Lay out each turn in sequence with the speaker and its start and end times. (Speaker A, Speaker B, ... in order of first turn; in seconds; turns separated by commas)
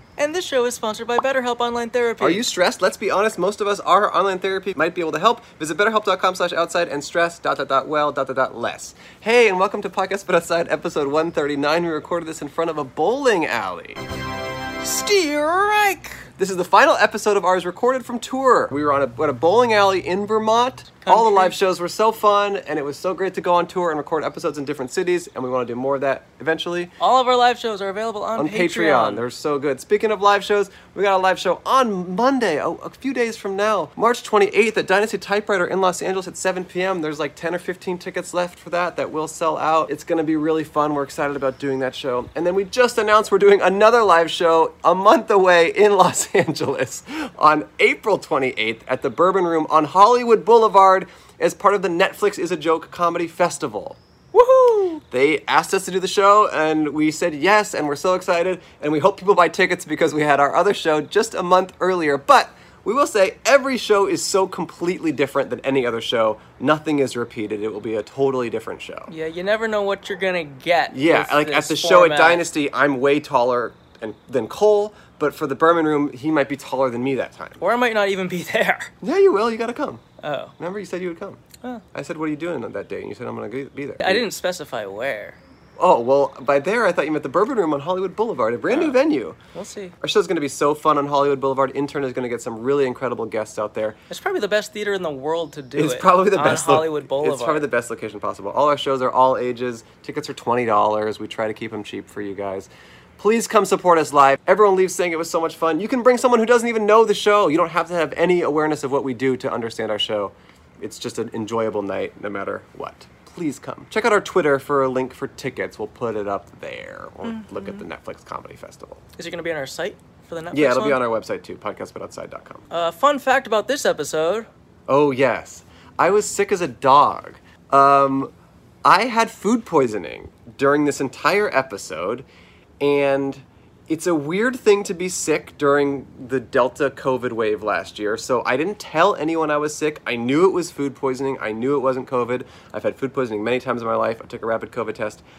Speaker A: 0.2-2.4, Speaker B: 2.2-14.0, Speaker A: 14.8-16.1, Speaker B: 16.4-26.9, Speaker A: 21.0-21.5, Speaker A: 27.0-29.2, Speaker B: 28.3-54.0, Speaker A: 54.3-55.0, Speaker B: 55.1-69.1, Speaker A: 69.1-72.4, Speaker B: 70.9-77.6, Speaker A: 77.6-78.9, Speaker B: 79.0-80.0, Speaker A: 80.2-80.5, Speaker B: 80.6-81.4, Speaker B: 81.9-84.3, Speaker A: 84.0-85.4, Speaker B: 85.8-89.4, Speaker A: 88.7-89.0, Speaker A: 89.5-89.9, Speaker B: 90.0-94.0, Speaker A: 94.1-97.7, Speaker B: 95.7-119.0, Speaker A: 117.3-117.8, Speaker A: 119.2-121.0, Speaker B: 120.5-122.6, Speaker A: 122.7-124.5, Speaker B: 124.9-128.3, Speaker B: 128.8-132.2, Speaker B: 132.8-145.2